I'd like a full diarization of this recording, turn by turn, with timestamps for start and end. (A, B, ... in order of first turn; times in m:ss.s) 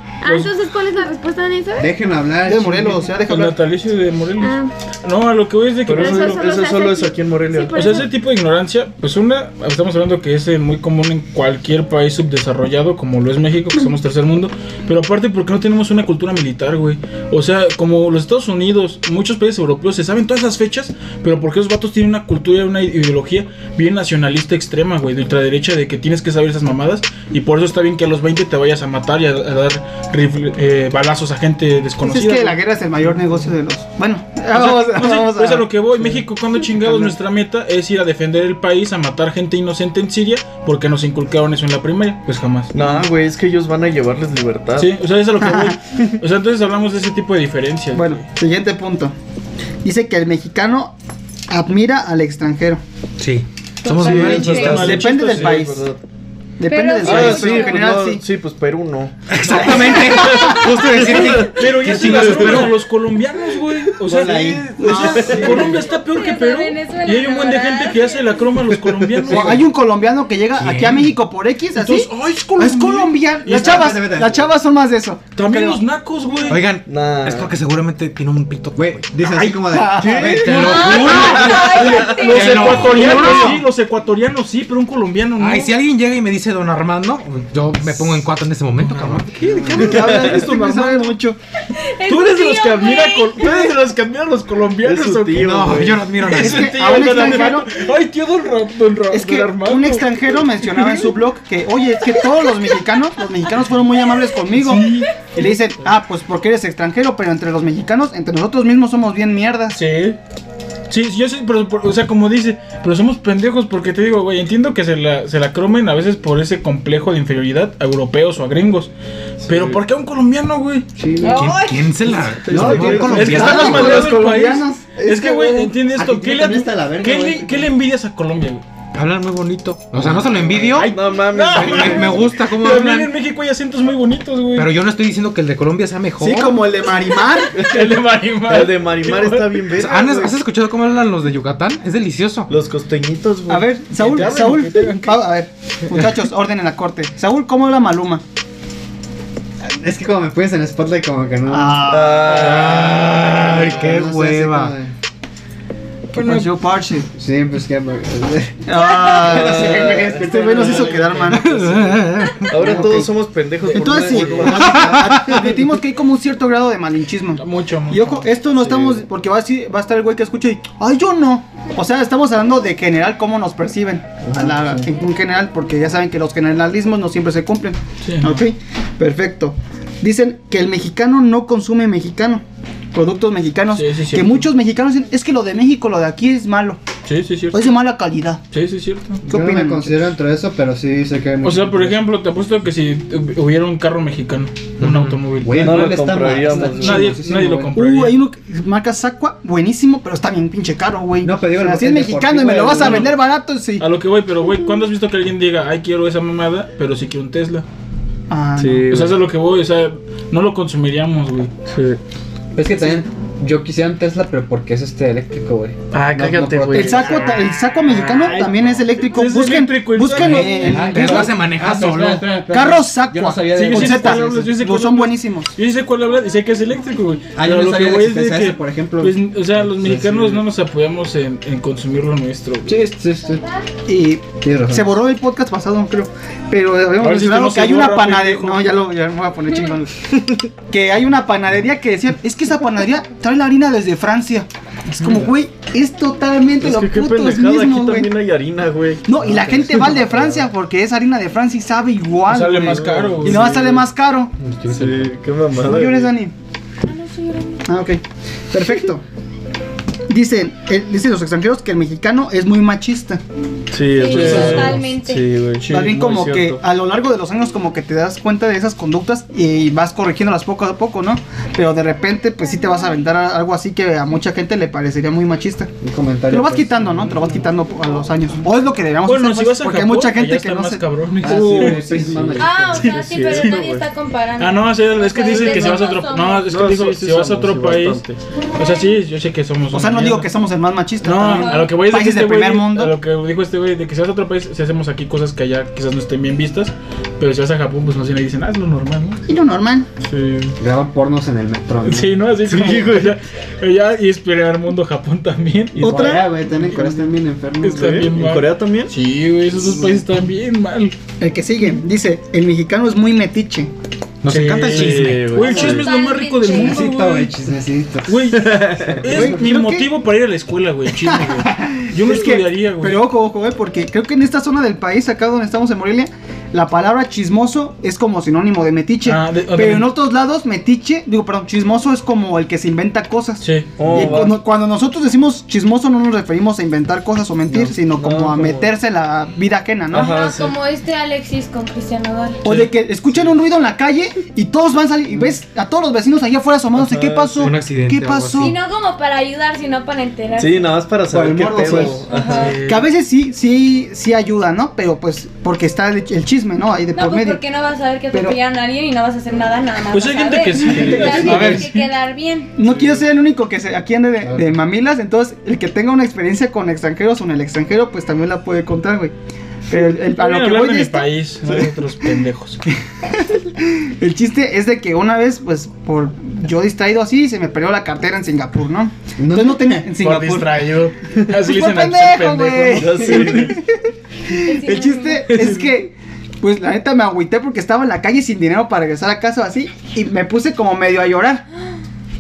0:00.2-0:01.9 A
0:00.2-0:00.5 B
0:01.8-0:03.1 C
0:02.5-0:03.6 D
0:03.3-0:06.4 B
0:04.4-0:04.7 A
0:05.9-0:08.0 E
0:05.9-0:08.1 A
0:07.7-0:32.6 B
0:32.0-0:35.7 D
0:34.5-0:42.8 B
0:36.8-0:37.1 D
0:42.7-0:44.9 E
0:42.8-0:43.0 D
0:44.8-0:48.2 B
0:45.4-0:45.8 D
0:47.9-0:49.1 D
0:49.8-0:51.0 D
0:51.5-0:52.8 D
0:53.2-0:54.8 F
0:53.8-0:54.9 A
0:53.9-0:56.0 E
0:54.0-0:55.7 B
0:54.5-0:55.9 D
0:56.6-0:58.2 D
0:56.7-0:57.8 A
0:57.0-1:02.7 E
0:59.3-1:02.7 F
0:59.4-1:00.7 D
1:01.4-1:09.6 B
1:04.1-1:05.8 E
1:04.1-1:04.7 C
1:04.8-1:05.7 D
1:05.8-1:08.4 A
1:09.3-1:09.6 C
1:09.3-1:15.8 D
1:10.6-1:11.2 F
1:11.8-1:14.0 B
1:13.5-1:14.5 C
1:15.4-1:16.6 B
1:16.5-1:19.1 F
1:16.9-1:17.6 E
1:18.8-1:21.0 C
1:19.2-1:21.8 D
1:19.9-1:23.2 E
1:20.4-1:23.6 F
1:20.6-1:22.8 A
1:20.9-1:25.7 B
1:22.8-1:23.6 D
1:25.4-1:30.2 F
1:28.8-1:31.2 B
1:29.4-1:29.7 C
1:29.6-1:31.4 D
1:29.9-1:30.4 E
1:31.8-1:33.7 A
1:32.1-1:35.6 B
1:34.8-1:36.2 E
1:35.4-1:36.9 F
1:36.2-1:41.1 B
1:36.3-1:37.7 D
1:37.2-1:37.5 E
1:39.1-1:49.8 D
1:44.5-1:45.2 B
1:49.8-1:50.2 B
1:50.9-1:58.9 B
1:59.4-1:59.8 E
1:59.5-2:00.9 B
2:01.0-2:01.6 C
2:01.2-2:02.2 A
2:01.3-2:04.1 F
2:02.3-2:03.5 E
2:02.5-2:04.1 C
2:03.0-2:08.6 B
2:03.1-2:05.7 D
2:05.9-2:07.7 C
2:08.9-2:11.0 F
2:10.0-2:10.7 C
2:10.7-2:12.2 E
2:10.8-2:14.7 B
2:11.5-2:13.1 F
2:14.6-2:16.6 F
2:16.2-2:17.6 D
2:17.3-2:19.6 B
2:17.5-2:20.4 E
2:19.7-2:22.5 F
2:22.5-2:23.7 E
2:23.5-2:28.2 D
2:24.0-2:25.2 B
2:29.6-2:31.8 C
2:31.5-2:32.6 D
2:31.9-2:33.7 E
2:32.3-2:34.8 F
2:33.2-2:34.9 C
2:36.1-2:37.1 D
2:36.2-2:36.5 B
2:37.1-2:38.7 C
2:38.7-2:41.6 D
2:39.0-2:41.2 E
2:40.2-2:41.6 B
2:41.3-2:42.9 F
2:42.5-2:45.6 E
2:42.6-2:43.1 C
2:42.6-2:43.0 D
2:43.7-3:02.4 D
2:43.9-2:45.5 C
2:47.4-2:48.3 B
2:48.6-2:49.0 E
2:54.2-2:54.9 C
2:58.0-2:58.4 B
3:02.9-3:06.8 D
3:03.7-3:04.5 B
3:07.1-3:07.7 B
3:07.5-3:08.4 D
3:08.5-3:09.2 B
3:09.3-3:10.1 D
3:09.3-3:12.0 C
3:11.4-3:18.2 B
3:14.8-3:15.2 F
3:15.4-3:17.7 C
3:15.6-3:17.2 E
3:17.4-3:23.8 D
3:21.2-3:23.1 C
3:22.8-3:23.2 B
3:23.8-3:27.6 B
3:28.3-3:28.9 D
3:28.6-3:29.2 E
3:28.9-3:31.5 B
3:31.7-3:32.0 E
3:32.6-3:37.1 C
3:35.9-3:38.6 E
3:36.7-3:41.2 D
3:39.1-3:41.3 B
3:40.1-3:44.5 C
3:40.1-3:42.6 F
3:42.5-3:45.5 D
3:43.5-3:52.9 B
3:47.4-3:50.4 C
3:52.7-3:53.5 C
3:53.9-4:00.0 D
3:54.4-3:54.9 C
3:57.0-3:58.8 B
4:00.6-4:08.1 D
4:05.0-4:05.3 B
4:06.6-4:10.5 E
4:09.0-4:14.3 D
4:12.3-4:13.8 B
4:12.6-4:13.8 E
4:14.4-4:15.1 F
4:14.7-4:16.1 E
4:15.6-4:16.3 D
4:16.8-4:17.6 A
4:17.7-4:19.0 D
4:20.1-4:23.2 D
4:23.7-4:26.6 E
4:24.0-4:25.2 A
4:24.1-4:24.8 B
4:25.6-4:35.7 D
4:35.8-4:37.3 C
4:36.3-4:40.8 D
4:39.0-4:43.6 B
4:41.2-4:42.9 C
4:41.3-4:43.8 E
4:42.4-4:43.9 A
4:42.4-4:44.6 G
4:44.4-4:48.0 B
4:44.5-4:46.4 A
4:45.3-4:45.9 E
4:45.4-4:46.2 G
4:46.4-4:48.2 E
4:48.6-4:50.3 B
4:49.7-4:53.0 D
4:51.0-4:59.2 B
4:51.2-4:51.7 A
4:59.3-4:59.9 D
5:00.0-5:00.5 E
5:00.6-5:02.2 C
5:01.8-5:06.2 B
5:02.5-5:03.2 E
5:05.8-5:06.3 D
5:05.8-5:08.0 C
5:06.7-5:07.0 B
5:07.6-5:11.0 B
5:07.7-5:08.9 E
5:11.2-5:13.7 D
5:14.2-5:15.4 F
5:14.3-5:17.3 B
5:14.7-5:15.9 E
5:15.4-5:16.9 A
5:16.5-5:18.4 C
5:18.1-5:23.0 B
5:18.5-5:19.0 E
5:18.9-5:19.4 C
5:19.1-5:19.9 D
5:21.0-5:40.2 D
5:29.0-5:29.9 B
5:33.4-5:34.1 B
5:33.8-5:34.4 E
5:37.5-5:38.7 E
5:39.9-5:40.6 E
5:40.0-5:40.3 A
5:40.2-5:42.4 G
5:42.4-5:48.6 D
5:42.4-5:42.7 B
5:46.8-5:47.6 E
5:47.4-5:48.6 F
5:48.4-5:48.7 A
5:48.4-5:50.5 G
5:50.4-5:52.6 E
5:51.1-5:52.0 C
5:51.1-5:52.0 D
5:52.1-5:52.5 A
5:52.2-5:52.9 B
5:52.5-5:57.4 D
5:57.0-6:00.4 G
5:59.9-6:02.2 A
5:59.9-6:01.9 B
6:00.7-6:01.6 D
6:00.8-6:01.4 C
6:01.8-6:02.5 G
6:02.6-6:09.1 D
6:04.2-6:04.5 C
6:09.7-6:11.1 D
6:10.0-6:12.6 B
6:13.1-6:20.5 D
6:19.2-6:19.8 C
6:20.0-6:23.3 B
6:21.4-6:23.7 D
6:22.8-6:23.6 E
6:24.3-6:31.4 D
6:24.5-6:25.2 A
6:25.3-6:25.6 B